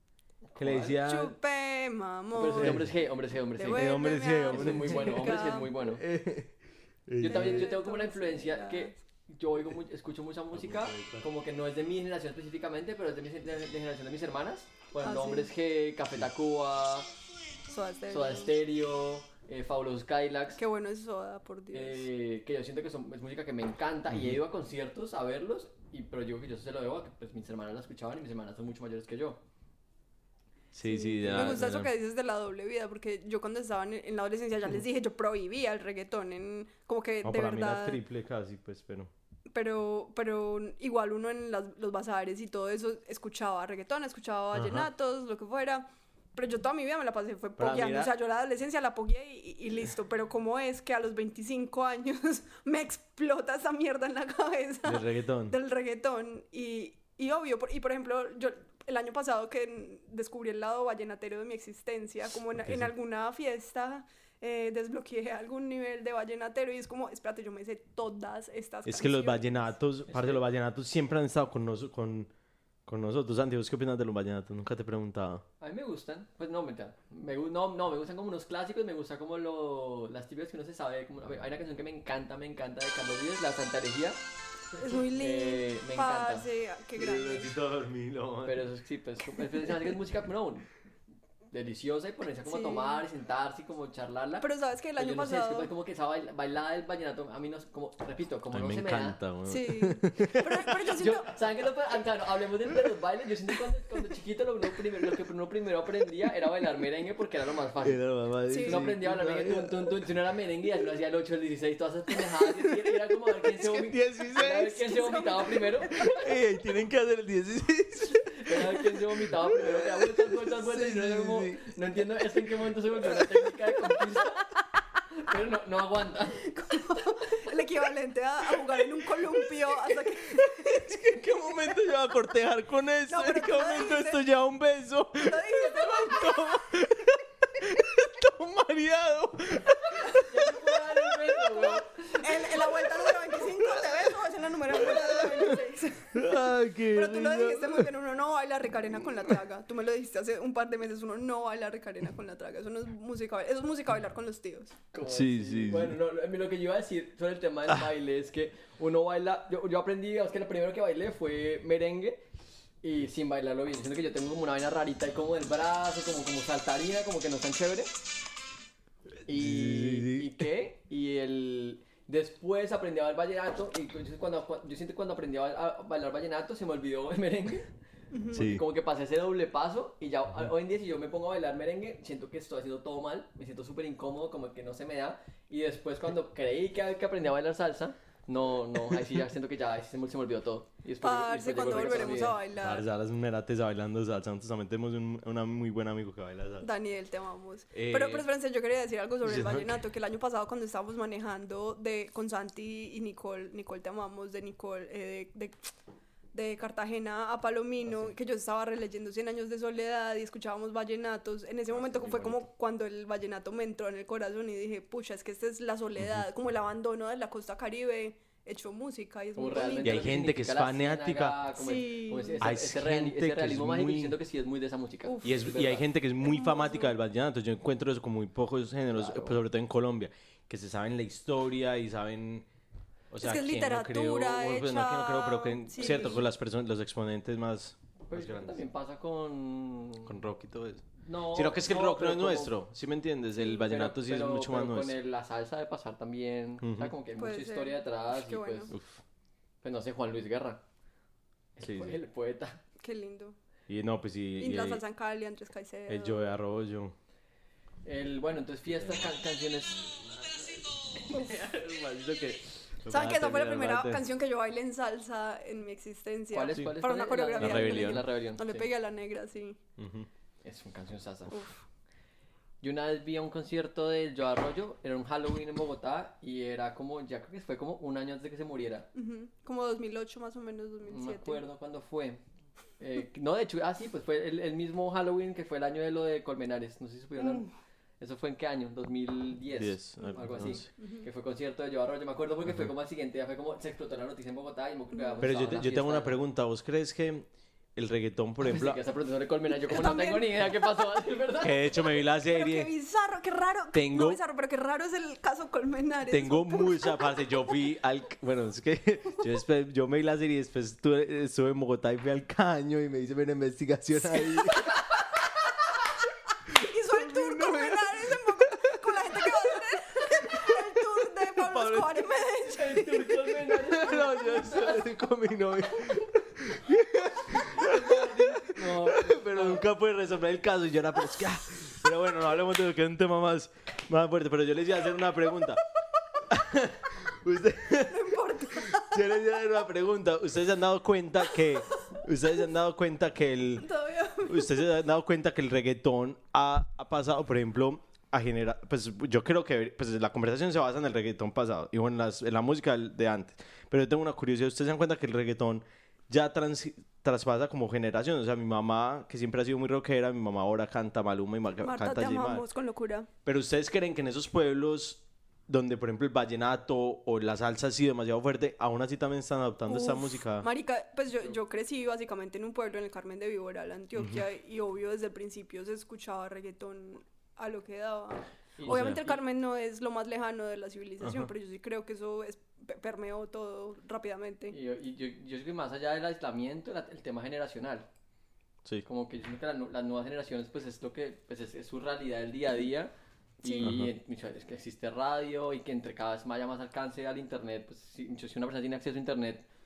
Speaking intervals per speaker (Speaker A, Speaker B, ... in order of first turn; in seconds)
Speaker A: 0.5-1.0, 2.4-6.0, 7.2-17.1, 18.1-20.6, 21.7-29.4, 31.3-31.6, 70.1-70.4, 75.6-84.2, 85.1-86.5, 88.5-90.7, 91.5-99.2, 100.9-108.0, 108.6-116.2, 118.4-124.5, 125.1-126.5, 140.1-142.5, 154.9-162.2, 162.8-167.9, 169.2-177.7, 178.3-192.4, 211.7-212.5, 219.4-225.9, 228.9-229.4, 238.1-240.2, 241.0-242.5, 243.6-248.8, 249.6-250.6, 251.6-252.6, 257.9-259.9, 266.3-268.7, 270.4-271.5, 272.6-278.9, 280.9-282.2, 282.8-287.5, 288.0-296.2, 298.4-301.7, 322.5-324.8, 327.3-329.7, 378.6-379.2, 384.5-387.9, 388.8-399.5
Speaker B: 0.6-1.4, 2.5-2.9, 3.7-7.7, 10.5-11.2, 30.7-31.9, 37.2-39.1, 44.5-44.9, 47.6-48.1, 54.9-55.5, 62.6-62.9, 68.8-72.3, 72.9-75.4, 87.0-88.6, 98.5-100.9, 107.8-109.9, 113.5-114.9, 115.9-121.7, 123.0-123.5, 129.1-140.4, 143.6-144.1, 144.7-145.6, 146.1-147.9, 155.0-156.0, 169.3-170.4, 178.3-178.6, 192.5-196.7, 197.7-198.3, 199.2-199.8, 216.0-216.2, 219.8-221.4, 222.4-224.2, 225.2-232.5, 233.1-238.6, 240.1-245.0, 246.6-246.9, 248.7-249.0, 251.6-252.0, 253.7-254.8, 255.9-256.9, 260.2-260.5, 261.1-264.0, 267.4-268.1, 269.8-270.1, 289.6-290.7, 295.2-298.8, 301.4-302.7, 303.7-304.2, 306.1-314.8, 316.6-320.8, 321.3-322.1, 323.6-335.6, 336.2-343.7, 344.2-362.4, 363.2-370.5, 374.0-374.2, 378.7-379.0, 381.0-381.3, 393.6-393.9
Speaker C: 1.0-2.9, 3.6-5.7, 7.2-9.0, 15.0-15.5, 17.7-18.6, 20.6-22.1, 30.8-38.0, 39.5-69.7, 84.8-87.5, 92.5-93.0, 94.4-95.7, 99.5-101.3, 108.5-108.9, 114.8-116.1, 126.5-131.0, 133.1-134.2, 135.2-136.7, 141.6-154.8, 178.1-178.5, 191.0-192.8, 196.6-205.6, 206.3-220.1, 221.6-222.4, 225.1-225.5, 226.2-226.9, 233.2-236.2, 247.2-248.8, 252.8-253.4, 254.4-256.4, 262.9-269.6, 278.9-281.4, 287.2-287.4, 290.1-291.1, 294.9-295.2, 299.6-301.0, 301.8-307.4, 314.2-314.8, 316.5-323.4, 324.0-324.6, 337.8-339.1, 343.6-344.6, 361.6-363.1, 369.7-384.5, 393.4-393.8